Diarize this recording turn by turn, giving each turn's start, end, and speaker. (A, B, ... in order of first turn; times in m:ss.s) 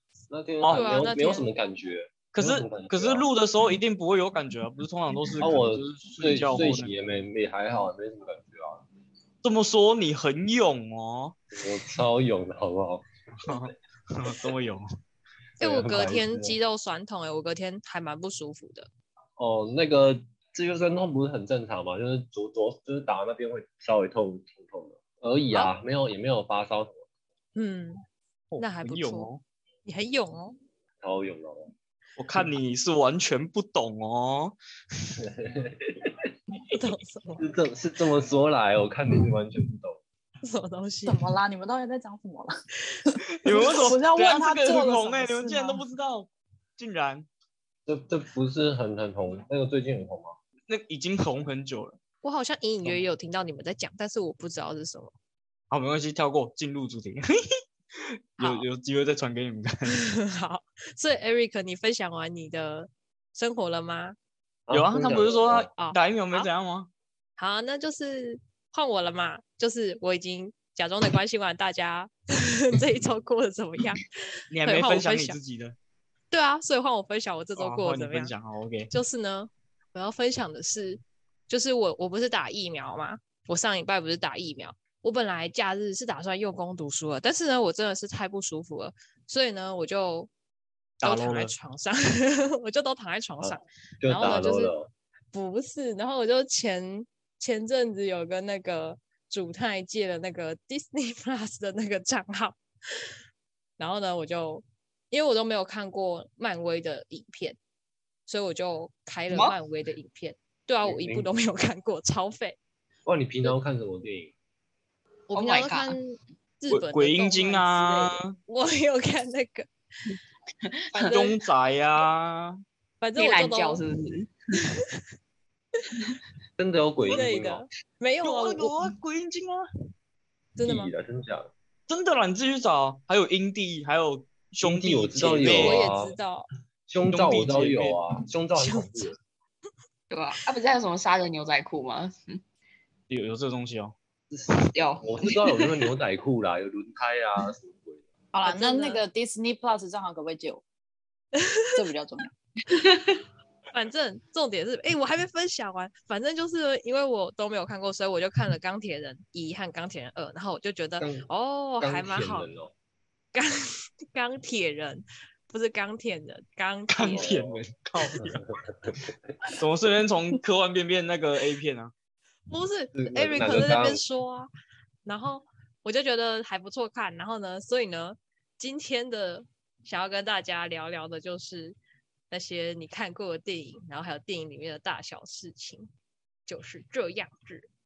0:00.3-0:03.2 A
0:00.6-0:00.9 B
0:00.7-0:01.5 C
0:02.3-0:06.9 B
0:05.4-0:08.8 A
0:09.4-0:11.4 B
0:11.5-0:13.6 A
0:13.4-0:14.9 B
0:15.6-0:16.6 A
0:15.6-0:18.9 C
0:19.4-0:27.0 A
0:27.6-0:28.0 C
0:28.5-0:29.4 B
0:28.6-0:29.3 C
0:29.8-0:30.6 C
0:31.0-0:31.7 A
0:32.2-0:34.6 B
0:35.2-0:36.2 A
0:36.7-0:37.4 C
0:37.4-0:40.0 A
0:40.4-0:41.2 C
0:41.1-0:42.5 D
0:43.1-0:45.8 D
0:43.4-0:47.3 B
0:47.9-0:50.4 A
0:50.7-0:52.0 B
0:52.2-0:55.1 C
0:55.7-0:57.2 B
0:58.4-0:59.9 B
0:58.4-0:58.6 C
0:59.9-1:04.2 C
1:04.7-1:05.7 A
1:04.7-1:06.9 B
1:05.8-1:06.5 C
1:07.4-1:14.0 C
1:14.5-1:15.8 B
1:14.6-1:15.4 C
1:16.3-1:18.3 C
1:17.6-1:18.9 B
1:18.9-1:30.3 C
1:31.0-1:34.7 C
1:31.0-1:31.5 B
1:33.4-1:34.9 A
1:35.3-1:42.6 C
1:43.8-1:47.6 C
1:48.3-1:52.6 C
1:49.3-1:49.6 E
1:50.8-1:51.3 A
1:53.1-1:54.3 A
1:55.3-1:56.0 E
1:55.3-1:59.7 C
1:56.7-1:58.4 B
2:00.6-2:01.3 E
2:00.9-2:01.3 C
2:01.1-2:02.6 B
2:03.0-2:03.8 C
2:03.2-2:04.3 E
2:06.6-2:07.6 A
2:07.1-2:08.8 C
2:08.2-2:09.6 B
2:10.6-2:10.9 C
2:10.6-2:11.5 A
2:11.9-2:15.9 B
2:14.6-2:16.2 A
2:15.4-2:16.5 C
2:16.9-2:19.2 A
2:17.1-2:18.0 B
2:18.6-2:19.1 C
2:20.1-2:22.4 E
2:23.1-2:24.0 B
2:24.3-2:28.0 A
2:24.7-2:25.8 E
2:28.3-2:30.6 D
2:28.4-2:29.0 C
2:31.8-2:32.3 D
2:32.7-2:33.2 E
2:33.7-2:42.5 C
2:41.0-2:41.3 A
2:41.8-2:42.7 A
2:43.3-2:47.3 C
2:46.9-2:48.5 B
2:47.0-2:47.6 A
2:48.2-2:49.0 A
2:49.5-2:51.9 B
2:52.5-2:54.5 C
2:53.0-2:54.0 A
2:55.0-3:01.8 C
3:02.3-3:05.9 C
3:06.5-3:07.7 C